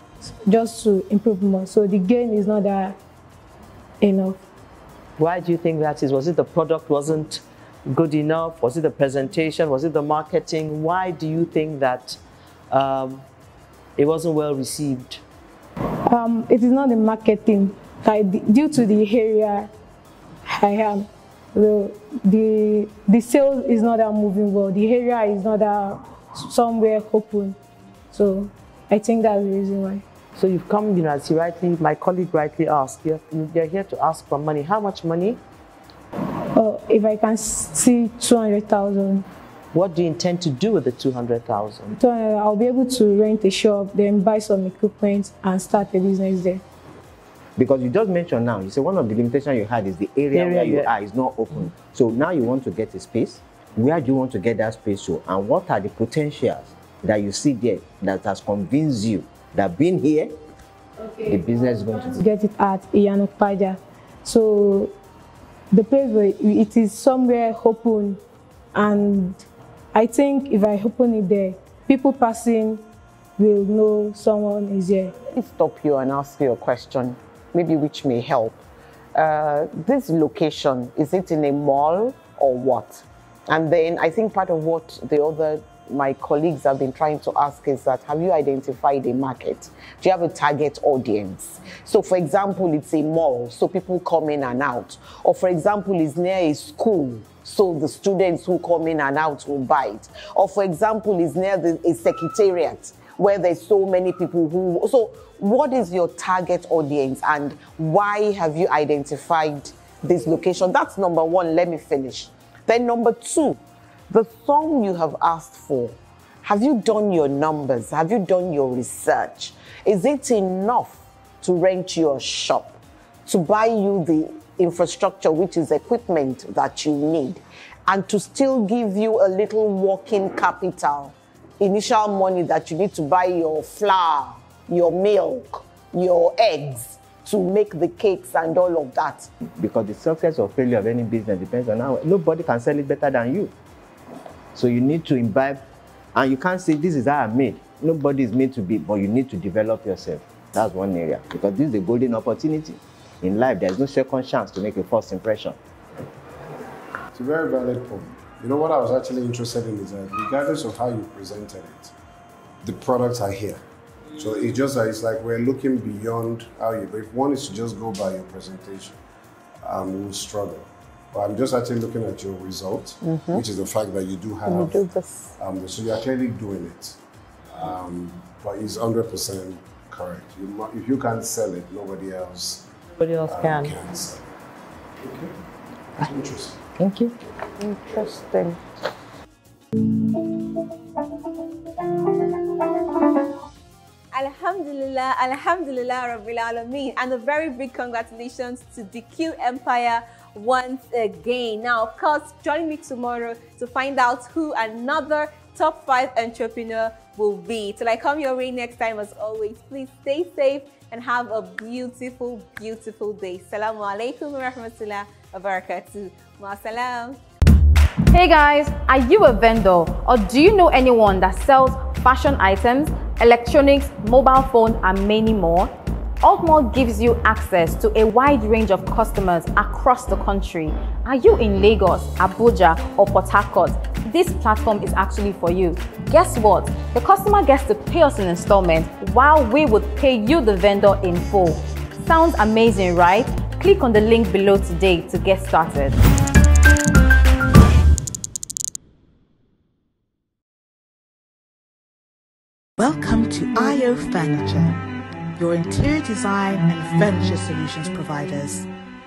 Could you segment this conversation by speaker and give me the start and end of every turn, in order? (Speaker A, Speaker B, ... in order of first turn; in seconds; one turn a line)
Speaker A: 0.2-3.0
Speaker A: 4.0-4.4
Speaker B: 5.2-12.2
Speaker B: 12.7-13.2
Speaker B: 14.0-15.2
Speaker A: 16.1-19.7
Speaker A: 20.4-27.6
Speaker A: 28.1-30.0
Speaker B: 30.4-35.4
Speaker A: 36.5-39.2
Speaker B: 39.7-41.9
Speaker A: 42.0-46.6
Speaker C: 47.6-60.3
Speaker B: 50.3-50.9
Speaker A: 61.0-64.9
Speaker C: 61.2-62.2
Speaker A: 65.7-68.2
Speaker A: 68.7-69.4
Speaker A: 69.9-72.8
Speaker A: 73.4-75.1
Speaker D: 75.3-78.6
Speaker D: 79.1-139.3
Speaker C: 139.5-143.5
Speaker C: 144.5-145.6
Speaker C: 146.1-155.6
Speaker E: 157.1-161.9
Speaker E: 162.6-163.6
Speaker E: 164.2-169.0
Speaker E: 169.6-174.8
Speaker D: 173.0-173.4
Speaker D: 174.5-175.3
Speaker E: 175.4-176.9
Speaker E: 177.5-182.6
Speaker B: 183.0-183.7
Speaker E: 183.2-184.2
Speaker E: 185.0-185.3
Speaker E: 186.0-186.6
Speaker B: 186.8-187.1
Speaker B: 187.6-188.5
Speaker F: 194.1-217.2
Speaker G: 218.1-246.0
Speaker H: 252.8-254.8
Speaker H: 255.4-258.7